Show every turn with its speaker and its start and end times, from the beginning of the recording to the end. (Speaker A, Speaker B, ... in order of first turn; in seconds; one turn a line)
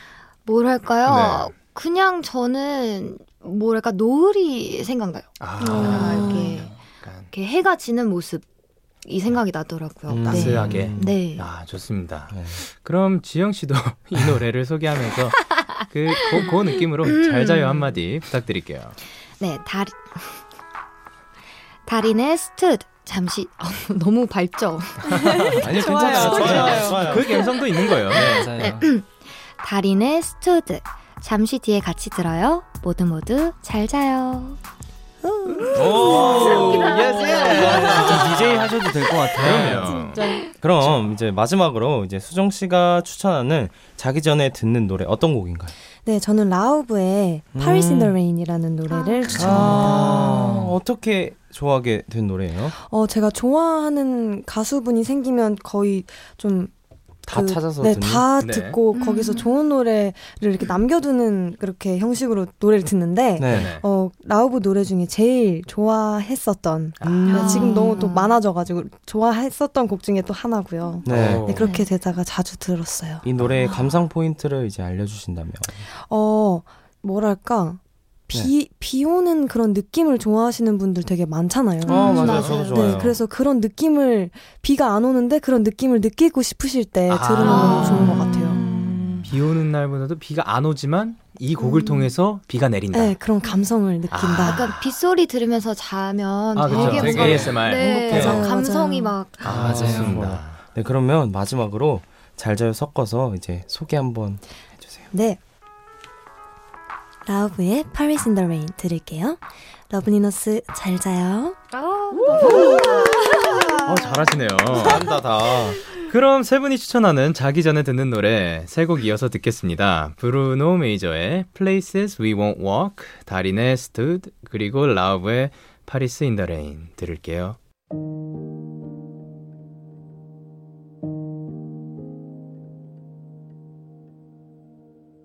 Speaker A: 0.5-6.7
Speaker B: 1.1-1.5
Speaker B: 5.4-7.3
Speaker C: 5.6-6.4
Speaker D: 5.7-6.8
Speaker A: 7.3-8.4
Speaker A: 9.0-11.5
Speaker E: 10.1-11.2
Speaker B: 10.2-19.0
Speaker E: 12.3-12.6
Speaker A: 16.3-17.9
Speaker A: 19.4-20.4
Speaker A: 21.9-26.8
Speaker C: 25.1-27.2
Speaker E: 25.5-27.5
Speaker B: 26.0-28.5
Speaker A: 27.8-34.6
Speaker E: 28.1-28.8
Speaker D: 28.2-28.8
Speaker C: 35.2-37.5
Speaker A: 35.7-37.9
Speaker E: 35.7-38.4
Speaker B: 36.0-38.7
Speaker D: 37.5-40.0
Speaker B: 39.4-40.3
Speaker E: 39.4-39.9
Speaker C: 39.6-40.6
Speaker E: 40.6-45.7
Speaker C: 46.0-50.4
Speaker E: 47.5-48.1
Speaker A: 48.9-49.3
Speaker D: 49.3-50.7
Speaker E: 49.3-52.7
Speaker C: 52.8-56.7
Speaker C: 57.2-73.2
Speaker E: 57.3-58.3
Speaker B: 58.4-58.8
Speaker A: 58.9-59.5
Speaker E: 63.4-63.7
Speaker B: 63.5-63.8
Speaker B: 67.0-67.8
Speaker A: 67.3-68.4
Speaker E: 71.0-71.6
Speaker B: 71.0-71.7
Speaker E: 73.2-75.8
Speaker C: 76.1-88.6
Speaker E: 81.8-83.2
Speaker A: 81.8-83.1
Speaker B: 82.2-82.6
Speaker B: 87.1-88.5
Speaker A: 87.4-89.2
Speaker D: 88.6-89.3
Speaker B: 89.2-93.1
Speaker C: 91.6-92.1
Speaker C: 92.9-94.6
Speaker B: 94.1-94.8
Speaker A: 94.4-99.5
Speaker B: 96.5-98.4
Speaker C: 96.7-97.5
Speaker E: 96.7-98.5
Speaker C: 98.0-99.1
Speaker B: 99.4-100.6
Speaker D: 99.5-100.3
Speaker E: 99.5-105.1
Speaker C: 105.1-105.4
Speaker C: 107.2-111.6
Speaker A: 111.7-113.8
Speaker C: 112.3-113.8
Speaker B: 113.8-115.1
Speaker E: 114.7-115.8
Speaker B: 115.9-127.6